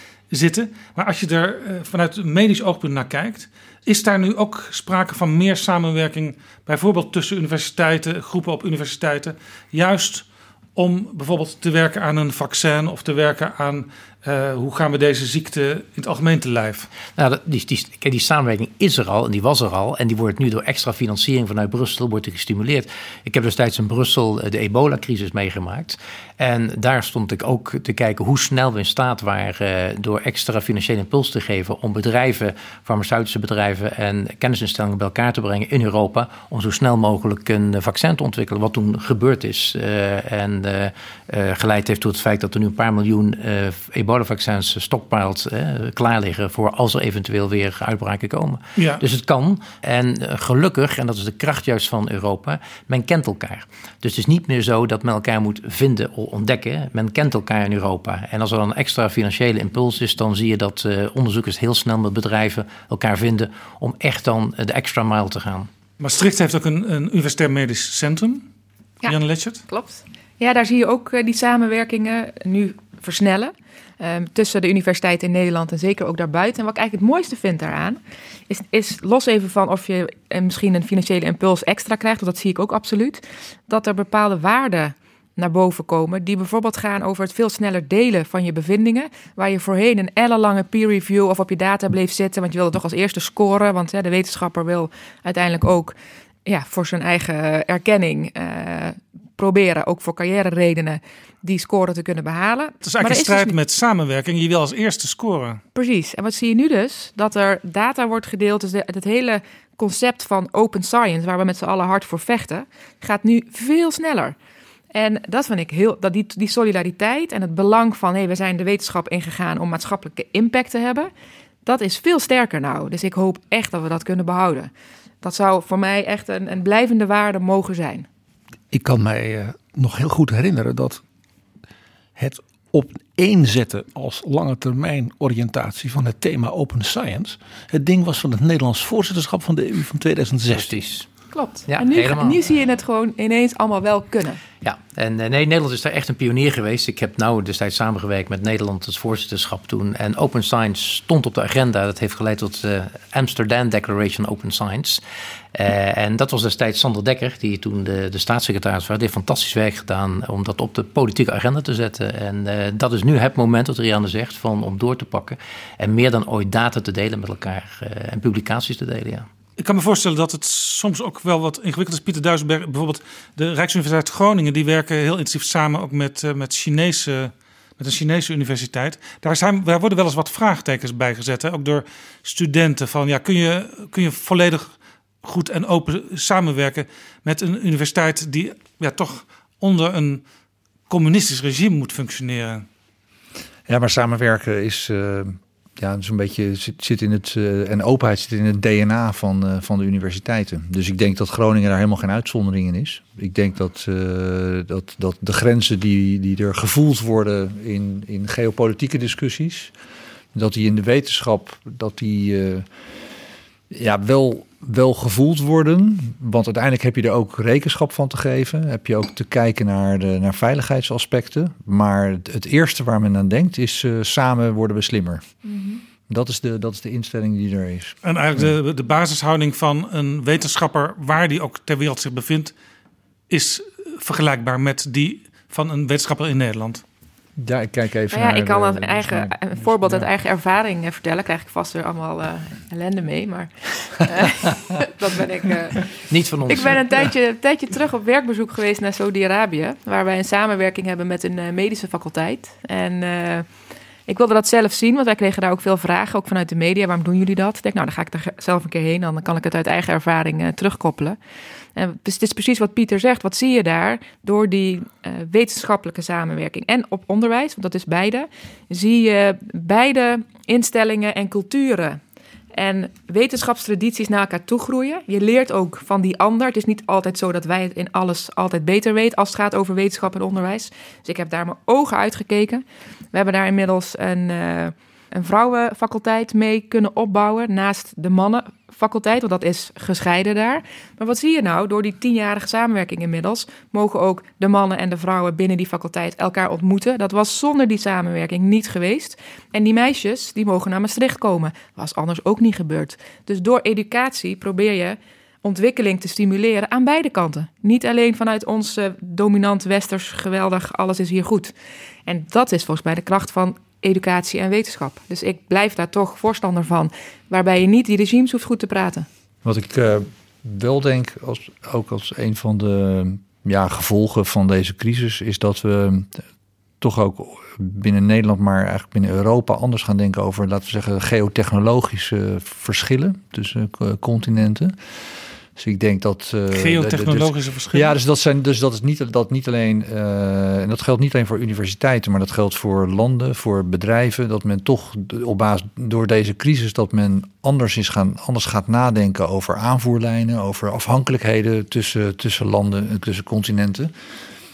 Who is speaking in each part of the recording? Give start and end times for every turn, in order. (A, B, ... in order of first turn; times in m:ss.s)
0:00.3-0:16.9 A
0:17.2-1:05.7 B
0:48.8-0:49.0 A
1:06.0-1:08.5 A
1:09.0-1:09.6 A
1:09.7-1:36.0 C
1:36.5-1:43.6 C
1:42.8-1:45.6 A
1:45.8-1:54.4 C
1:54.9-2:01.1 C
2:01.6-2:04.7 C
2:05.2-2:08.1 C
2:08.7-2:11.0 D
2:12.2-2:20.8 D
2:20.5-2:21.1 B
2:21.3-2:24.4 C
2:21.7-2:22.4 B
2:24.6-2:35.0 B
2:35.6-2:49.3 B
2:49.6-3:10.2 A
3:10.9-3:12.6 A
3:13.7-3:29.7 E
3:30.3-3:32.7 E
3:33.7-3:45.2 E
3:45.4-3:45.8 C
3:46.1-3:48.5 E
3:48.0-3:52.5 A
3:53.3-3:56.8 A
3:57.4-4:00.1 E
3:58.1-4:05.9 C
4:06.1-4:07.1 B
4:06.5-4:13.5 C
4:14.1-4:21.2 C
4:21.8-4:32.0 C
4:32.6-5:11.5 C
5:12.1-5:19.1 C
5:19.4-5:26.2 E
5:26.8-5:34.8 E
5:35.6-5:53.9 E
5:36.5-5:37.9 A